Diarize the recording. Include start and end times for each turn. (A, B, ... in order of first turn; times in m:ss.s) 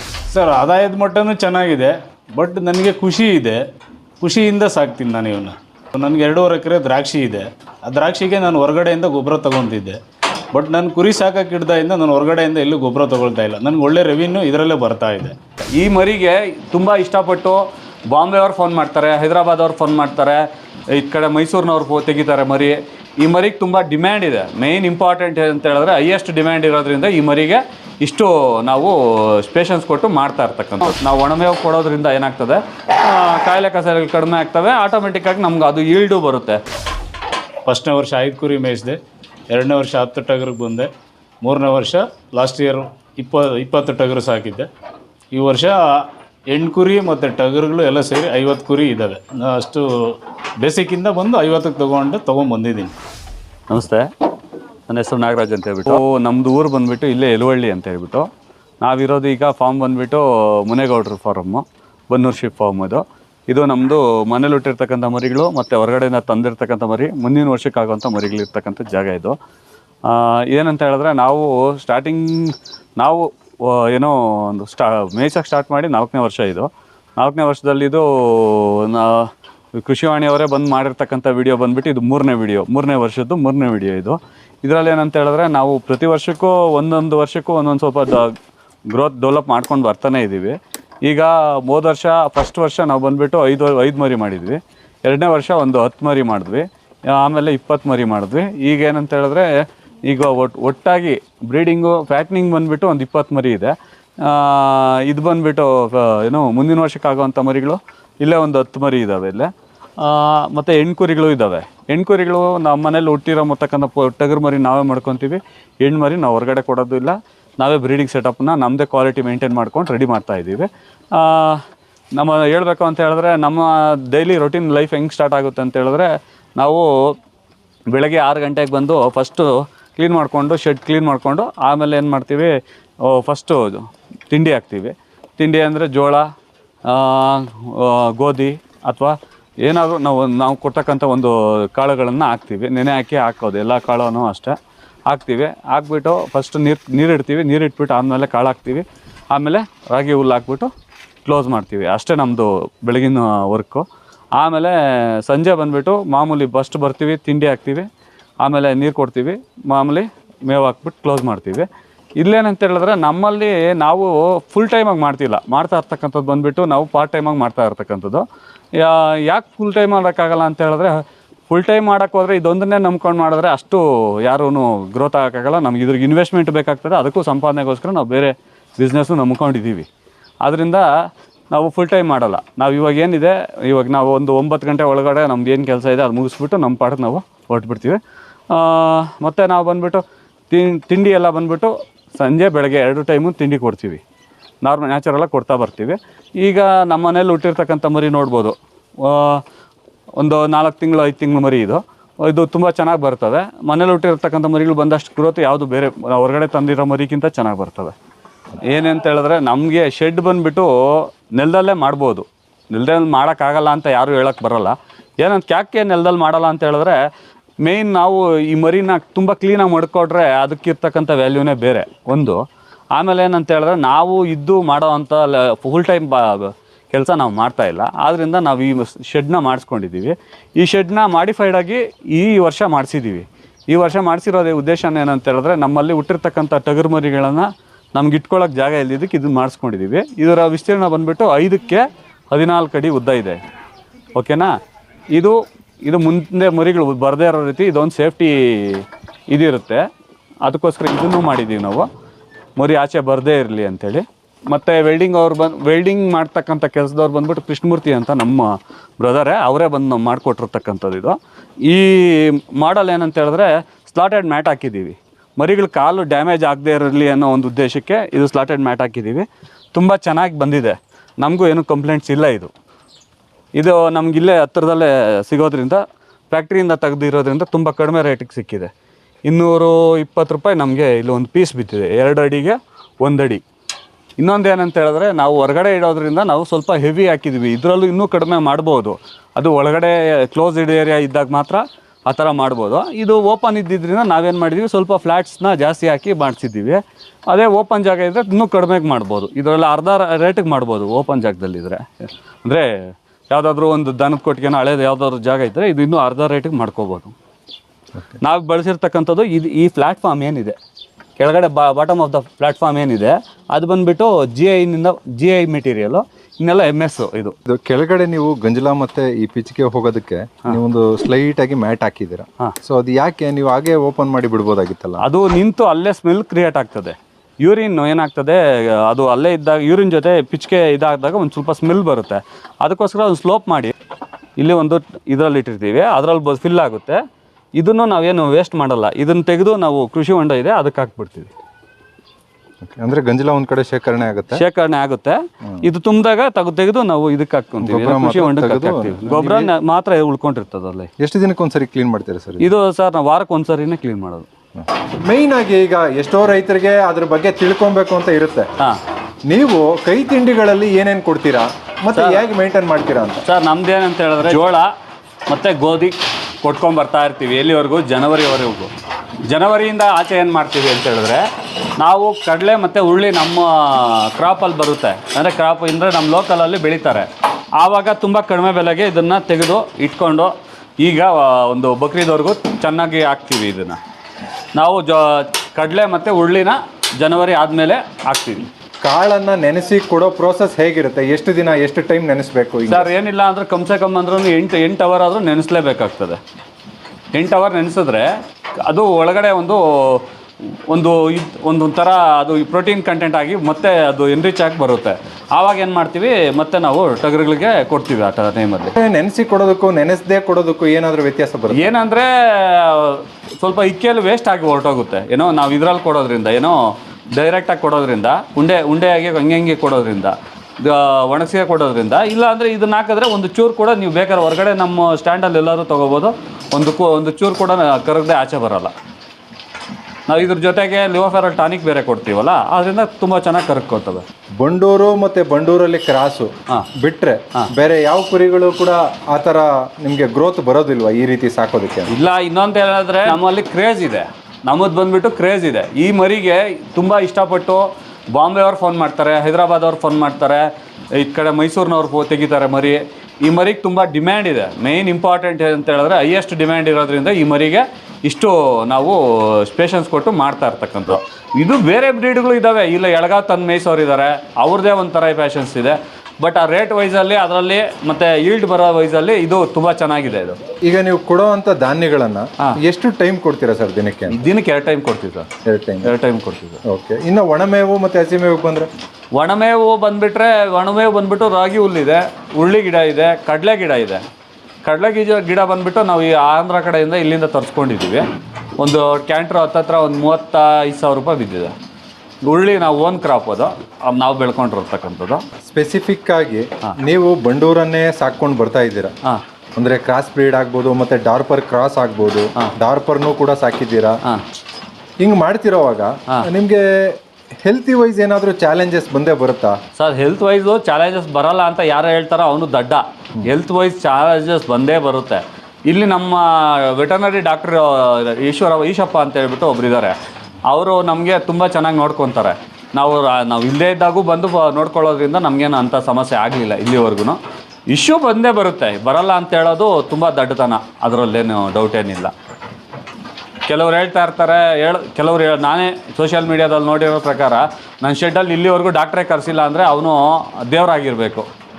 0:00.3-0:03.6 A
0:04.2-0:10.0 A
0:10.5-0:15.3 A
0:15.7-0:36.6 B
0:37.6-0:39.0 A
0:39.5-0:40.9 A
0:41.4-0:44.7 A
0:45.3-0:52.9 A
0:53.7-0:54.1 B
0:54.9-0:58.3 B
0:58.8-1:09.4 B
1:10.1-1:28.3 B
1:28.9-2:01.6 B
2:02.2-2:06.9 B
2:07.9-2:12.5 B
2:13.0-2:16.2 B
2:16.8-2:24.6 B
2:25.1-2:30.7 B
2:31.2-2:33.8 B
2:34.4-2:37.9 B
2:38.4-2:41.7 B
2:42.2-2:48.2 B
2:48.8-2:51.0 B
2:51.5-2:59.9 B
3:00.4-3:00.9 B
3:01.5-3:08.0 B
3:08.5-3:14.0 B
3:14.6-3:19.4 B
3:20.2-3:27.9 B
3:28.6-3:37.0 B
3:37.6-3:42.4 B
3:42.9-4:03.4 B
4:04.2-4:04.5 B
4:05.1-4:09.8 B
4:10.4-4:11.9 B
4:12.6-4:32.5 B
4:33.6-4:38.7 B
4:39.3-4:43.4 B
4:44.2-5:07.1 B
5:08.2-5:10.5 B
5:11.2-5:17.3 B
5:17.5-5:25.0 C
5:25.0-5:33.7 B
5:34.4-5:37.0 B
5:37.6-5:41.3 B
5:42.6-5:44.4 C
5:44.3-5:50.9 B
5:47.6-5:49.5 C
5:51.0-5:52.5 C
5:52.4-5:54.3 B
5:54.6-5:58.5 C
5:59.3-6:03.2 C
6:01.9-6:02.2 B
6:03.2-6:04.7 B
6:05.3-6:08.7 B
6:09.2-6:11.3 B
6:11.8-6:17.1 B
6:17.6-6:23.8 B
6:24.6-6:28.5 B
6:28.8-6:32.9 C
6:32.7-6:36.2 B
6:37.1-6:48.7 B
6:48.8-6:51.7 C
6:51.5-7:08.7 B
7:10.1-7:14.0 B
7:14.4-7:21.9 C
7:21.9-7:30.4 B
7:31.0-7:50.4 B
7:50.6-7:54.2 C
7:54.1-7:55.3 B
7:55.4-7:55.9 C
7:55.8-7:56.6 B
7:56.6-7:58.7 C
7:59.1-8:04.0 B
8:04.6-8:08.0 B
8:08.6-8:11.5 B
8:12.2-8:15.2 B
8:15.4-8:18.9 C
8:19.6-8:24.0 C
8:25.0-8:29.6 C
8:29.8-8:40.0 B
8:40.5-8:47.2 B
8:47.7-8:52.1 B
8:53.5-9:01.3 B